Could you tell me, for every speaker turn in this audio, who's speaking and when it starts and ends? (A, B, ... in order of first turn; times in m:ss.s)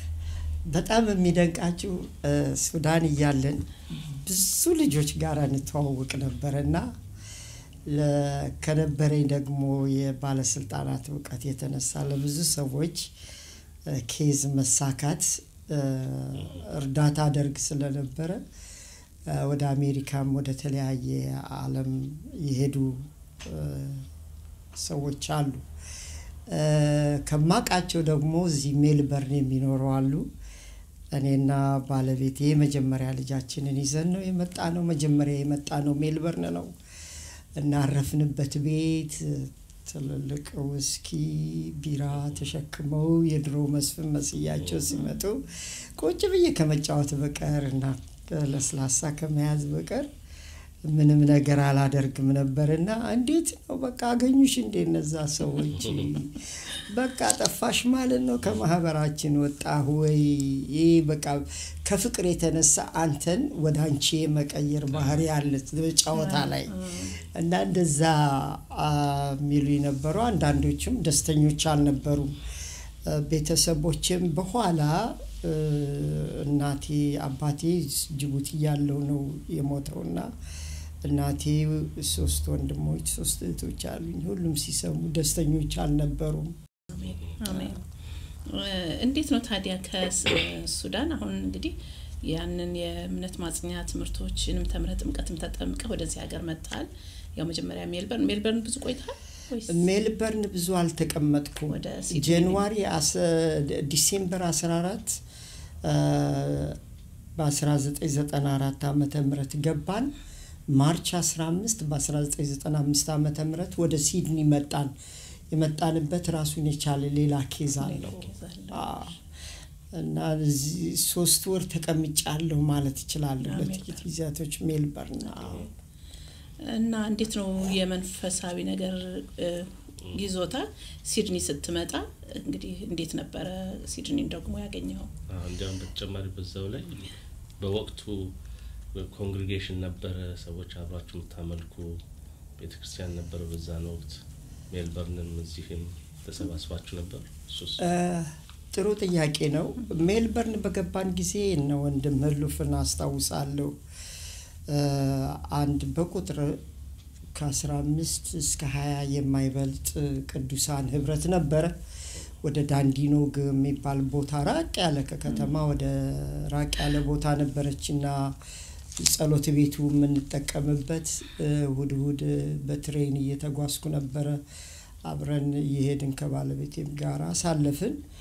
0:00.7-0:06.9 A
0:07.9-0:13.1 A
0:13.9-0:18.4 A
0:19.3-0:24.1 A
0:24.7-0:25.7 A
0:26.5-0:30.3 A
0:31.1-0:36.7 A
0:37.6-0:50.1 A
0:50.8-1:12.4 A
1:06.1-1:07.1 B
1:13.0-1:20.3 A
1:21.0-1:26.6 A
1:26.9-1:27.8 B
1:28.5-1:39.9 B
1:39.7-1:45.2 A
1:41.7-1:42.6 B
1:45.8-1:46.8 A
1:47.4-1:50.1 A
1:50.7-1:54.9 A
1:55.5-1:59.1 A
1:57.8-1:58.9 B
1:59.9-2:05.7 A
2:03.4-2:04.0 B
2:06.6-2:15.1 B
2:15.3-2:18.3 C
2:18.9-2:22.0 C
2:22.6-2:27.8 C
2:27.8-2:33.8 A
2:34.7-2:36.6 A
2:37.3-2:41.8 A
2:42.4-2:48.4 A
2:45.3-2:45.6 B
2:49.0-2:54.4 A
2:55.1-2:58.0 A